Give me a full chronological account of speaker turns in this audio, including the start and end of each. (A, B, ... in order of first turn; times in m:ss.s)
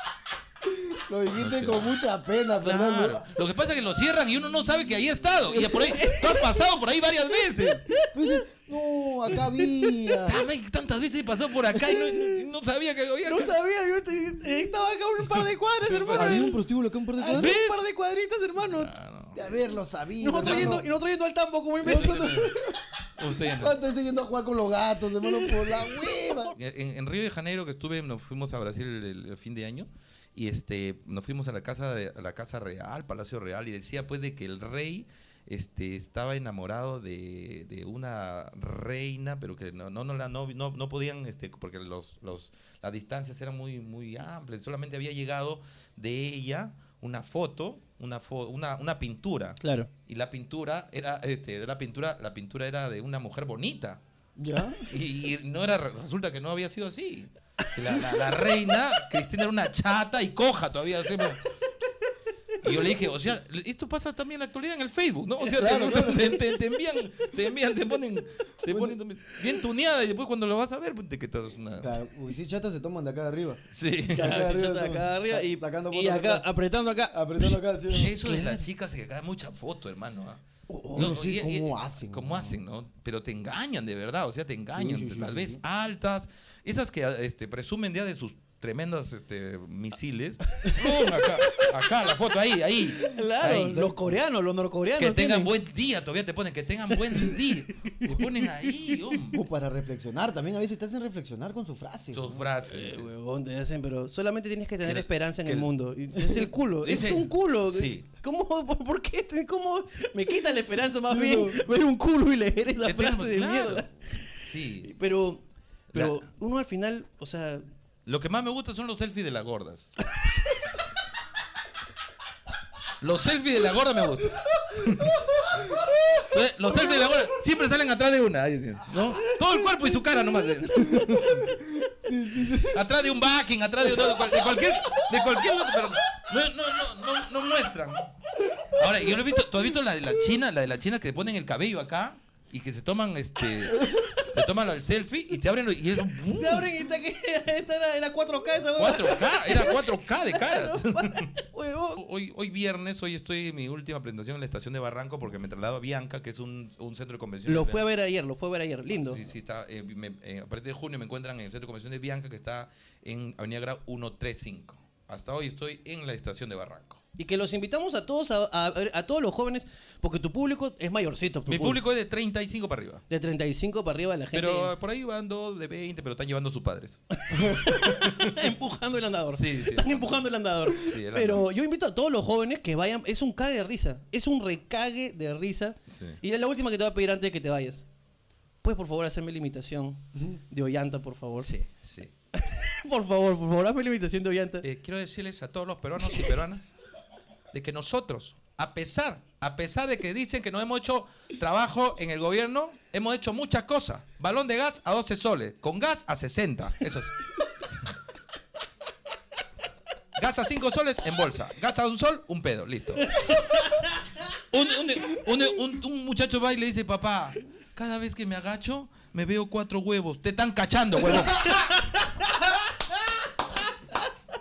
0:00.6-0:03.3 A
0:01.4-0:02.0 B
0:02.6-0:07.9 B
0:05.5-0:06.7 C
0:07.7-0:08.4 C
0:08.1-0:10.4 A
0:09.3-0:10.2 C
0:10.2-0:13.5 B
0:11.7-0:12.5 C
0:13.2-0:16.6 C
0:15.9-0:16.6 B
0:16.1-0:17.6 A
0:17.2-0:18.9 C
0:17.3-0:17.8 B
0:18.6-0:19.4 B
0:19.3-0:20.9 A
0:20.2-0:22.5 C
0:20.4-0:20.8 B
0:21.8-0:22.5 B
0:21.8-0:26.5 A
0:23.2-0:23.8 B
0:25.2-0:26.6 C
0:26.6-0:54.0 B
0:49.6-0:49.9 C
0:54.4-0:54.9 A
0:54.9-1:01.4 B
0:57.8-0:58.6 C
1:02.6-1:12.0 B
1:05.5-1:06.6 A
1:11.8-1:13.6 A
1:13.7-1:14.5 B
1:14.1-1:17.6 C
1:14.2-1:16.5 A
1:17.1-1:18.5 A
1:17.9-1:33.8 B
1:18.2-1:18.5 C
1:20.7-1:21.2 C
1:20.9-1:22.6 A
1:24.7-1:25.6 A
1:30.6-1:32.0 C
1:33.0-1:35.5 C
1:33.4-1:34.2 A
1:35.0-1:39.4 B
1:36.9-1:39.2 C
1:39.3-1:42.4 A
1:42.1-1:43.1 B
1:42.6-1:57.6 C
1:44.8-1:45.7 B
1:46.3-1:48.0 B
1:51.1-1:51.6 A
1:52.8-1:54.9 B
1:55.9-1:56.2 B
1:58.1-1:59.9 B
2:00.0-2:00.8 C
2:03.0-2:05.6 B
2:05.4-2:05.9 A
2:06.2-2:11.6 B
2:11.6-2:12.8 A
2:12.5-2:18.1 B
2:18.6-2:26.7 B
2:23.6-2:24.6 C
2:26.2-2:32.0 C
2:28.8-2:31.3 B
2:32.0-2:37.8 B
2:37.5-2:39.2 C
2:39.0-2:47.0 B
2:47.2-2:51.8 C
2:51.5-2:53.0 B
2:53.1-2:54.7 C
2:54.3-2:58.5 B
2:57.2-3:07.9 C
2:59.3-3:01.5 B
3:05.9-3:06.2 B
3:08.6-3:11.5 C
3:11.4-3:12.1 B
3:12.3-3:14.7 C
3:14.6-3:16.6 B
3:16.1-3:16.4 C
3:17.5-3:27.3 B
3:30.2-3:33.1 B
3:33.0-3:34.1 C
3:34.4-3:42.0 B
3:41.0-3:44.1 C